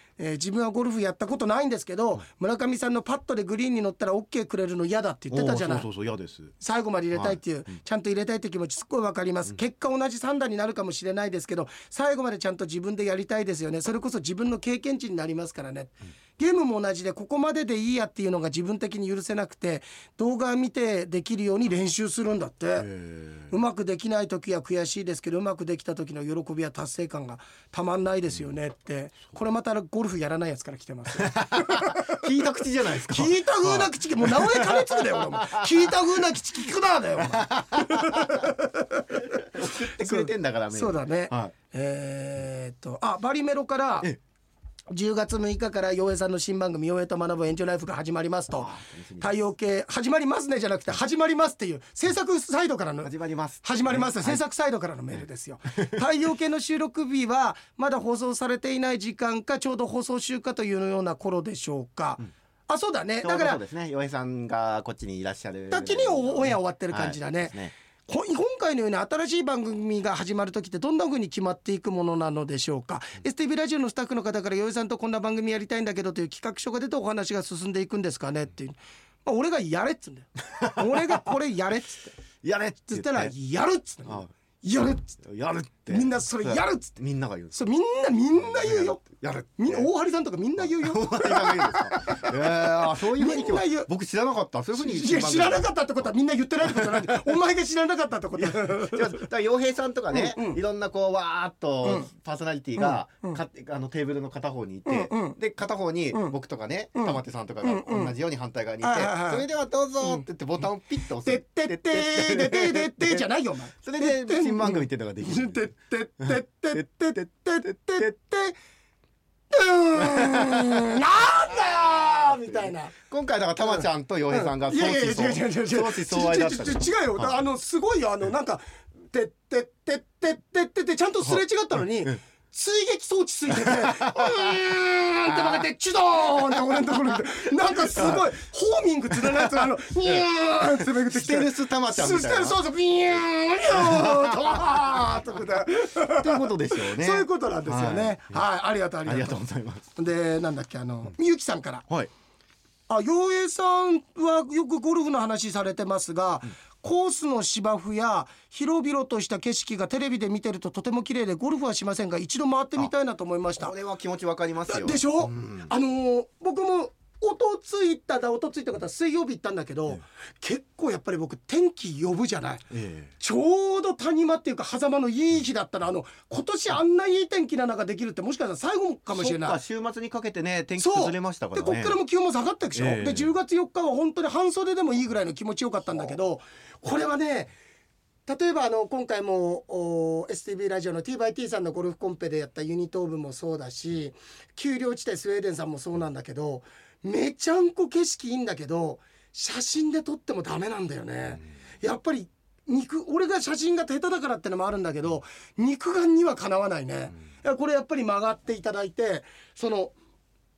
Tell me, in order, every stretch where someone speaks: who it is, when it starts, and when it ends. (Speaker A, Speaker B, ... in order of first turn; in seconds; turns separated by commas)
Speaker A: 0.2-5.9, Speaker B: 5.3-6.5, Speaker A: 6.6-22.9, Speaker B: 7.1-7.4, Speaker B: 22.8-23.5, Speaker A: 23.5-32.2, Speaker B: 31.2-36.0, Speaker A: 33.1-44.1, Speaker B: 37.2-38.5, Speaker B: 39.3-41.5, Speaker A: 44.9-53.1, Speaker B: 48.5-49.4, Speaker B: 53.0-54.4, Speaker A: 53.6-63.6, Speaker B: 63.2-67.7, Speaker A: 65.7-67.6, Speaker A: 68.1-82.2, Speaker B: 80.6-81.2, Speaker B: 82.4-83.3, Speaker A: 82.9-85.2, Speaker B: 85.2-87.6, Speaker A: 85.9-87.0, Speaker A: 87.5-89.0, Speaker B: 88.3-89.9, Speaker A: 89.6-93.9, Speaker B: 90.6-95.7, Speaker A: 94.8-99.2, Speaker B: 96.6-97.4, Speaker B: 98.4-113.2, Speaker A: 100.1-100.6, Speaker A: 101.8-102.1, Speaker A: 102.8-103.4, Speaker A: 104.8-105.4, Speaker A: 106.9-108.1, Speaker A: 108.8-109.4, Speaker A: 111.2-118.6, Speaker B: 113.8-115.7, Speaker B: 116.2-116.8, Speaker B: 117.7-118.1, Speaker A: 119.5-122.9, Speaker B: 120.0-127.4, Speaker A: 123.6-149.4, Speaker B: 133.5-135.6, Speaker B: 136.6-136.8, Speaker B: 137.7-138.3, Speaker B: 139.2-142.6, Speaker B: 143.7-148.4, Speaker B: 149.0-149.9, Speaker A: 149.9-151.8, Speaker A: 152.9-163.7, Speaker B: 163.6-165.7, Speaker A: 164.7-179.6, Speaker B: 172.7-173.1, Speaker B: 179.1-182.0, Speaker A: 180.8-187.5, Speaker B: 182.7-183.3, Speaker A: 188.2-209.9